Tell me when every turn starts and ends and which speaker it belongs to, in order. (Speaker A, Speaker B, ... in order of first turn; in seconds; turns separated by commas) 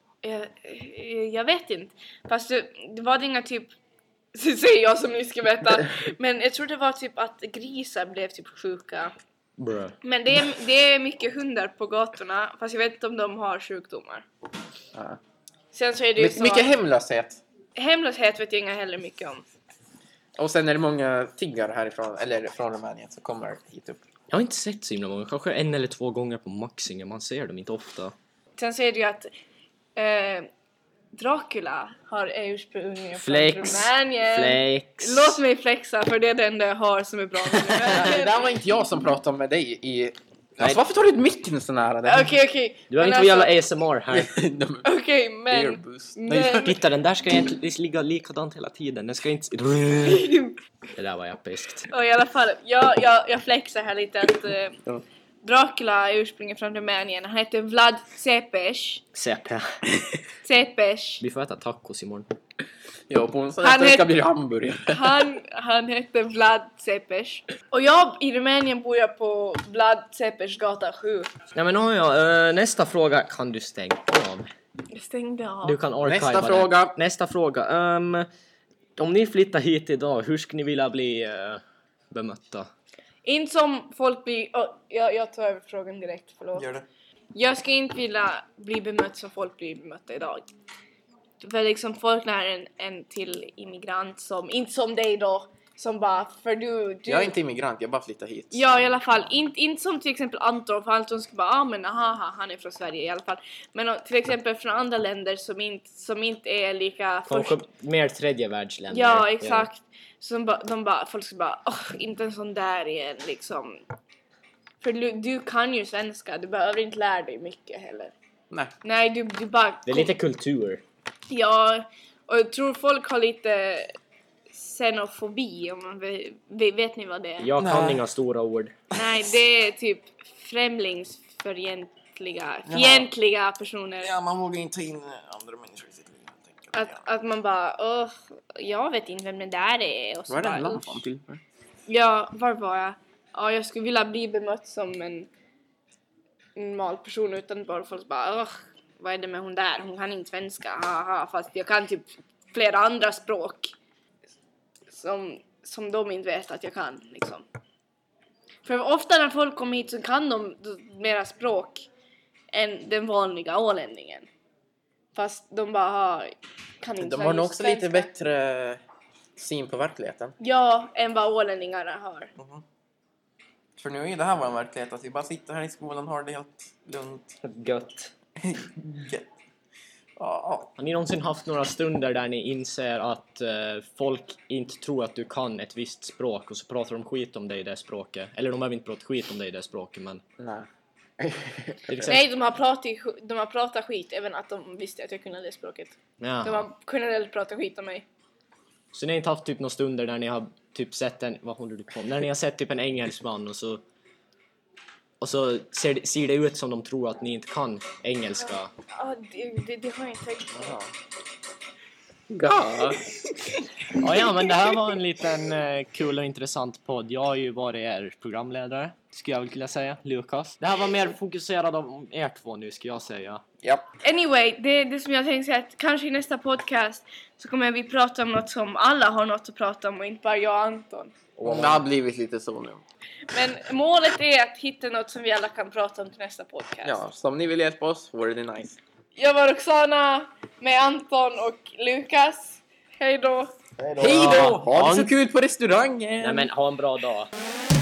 Speaker A: 0.2-3.7, Speaker A: 4.3-9.1, Speaker B: 9.6-9.9, Speaker A: 10.0-14.2, Speaker A: 15.7-16.7, Speaker C: 16.2-17.4, Speaker A: 17.8-19.4, Speaker C: 20.4-24.0, Speaker B: 24.3-28.1, Speaker A: 28.6-29.3, Speaker A: 29.9-30.5, Speaker A: 31.1-38.4, Speaker B: 33.1-35.4, Speaker B: 37.4-38.0, Speaker C: 37.8-42.3, Speaker A: 42.0-43.5, Speaker B: 42.9-44.3, Speaker C: 44.1-44.9, Speaker A: 44.8-46.8, Speaker C: 45.5-46.2, Speaker B: 46.3-50.3, Speaker A: 50.0-50.5, Speaker B: 50.9-51.8, Speaker A: 51.9-54.8, Speaker A: 55.4-59.0, Speaker B: 59.1-59.7, Speaker A: 60.4-61.2, Speaker B: 61.2-62.3, Speaker C: 63.1-65.2, Speaker A: 63.6-64.3, Speaker A: 64.9-71.3, Speaker B: 71.5-74.5, Speaker A: 74.9-75.8, Speaker B: 75.6-78.3, Speaker C: 76.0-76.9, Speaker B: 79.0-82.7, Speaker A: 83.2-86.7, Speaker C: 86.5-86.8, Speaker A: 87.3-90.5, Speaker A: 91.4-97.3, Speaker C: 97.1-98.6, Speaker A: 98.5-107.6, Speaker B: 107.2-109.7, Speaker A: 108.9-113.8, Speaker A: 114.8-118.1, Speaker A: 118.8-120.1, Speaker B: 119.8-120.8, Speaker A: 121.3-124.0, Speaker A: 124.5-127.5, Speaker B: 127.4-128.8, Speaker C: 127.6-128.0, Speaker A: 128.9-134.2, Speaker C: 132.7-133.1, Speaker C: 134.0-137.0, Speaker A: 136.7-141.0, Speaker C: 140.3-141.4, Speaker A: 141.9-145.3, Speaker A: 146.6-153.7, Speaker A: 154.9-157.4, Speaker A: 158.6-161.9, Speaker A: 162.5-164.3, Speaker A: 165.1-168.1, Speaker C: 167.0-168.8, Speaker C: 169.3-170.3, Speaker A: 170.4-172.3, Speaker C: 172.4-172.6, Speaker C: 173.8-177.3, Speaker B: 177.4-178.1, Speaker C: 178.4-179.3, Speaker C: 180.2-180.7, Speaker B: 180.8-190.2, Speaker C: 190.4-190.7, Speaker C: 191.2-192.2, Speaker B: 191.9-192.2, Speaker A: 192.1-198.1, Speaker B: 196.2-196.7, Speaker B: 198.9-203.8, Speaker B: 205.2-208.7, Speaker A: 208.4-210.8, Speaker C: 212.3-213.0, Speaker A: 213.5-214.5, Speaker B: 213.9-223.4, Speaker A: 224.0-231.1, Speaker B: 231.4-231.8, Speaker C: 231.4-232.8, Speaker A: 233.3-237.0, Speaker C: 236.8-238.8, Speaker A: 239.2-243.5, Speaker C: 243.8-246.5, Speaker B: 244.0-245.1, Speaker B: 246.2-247.3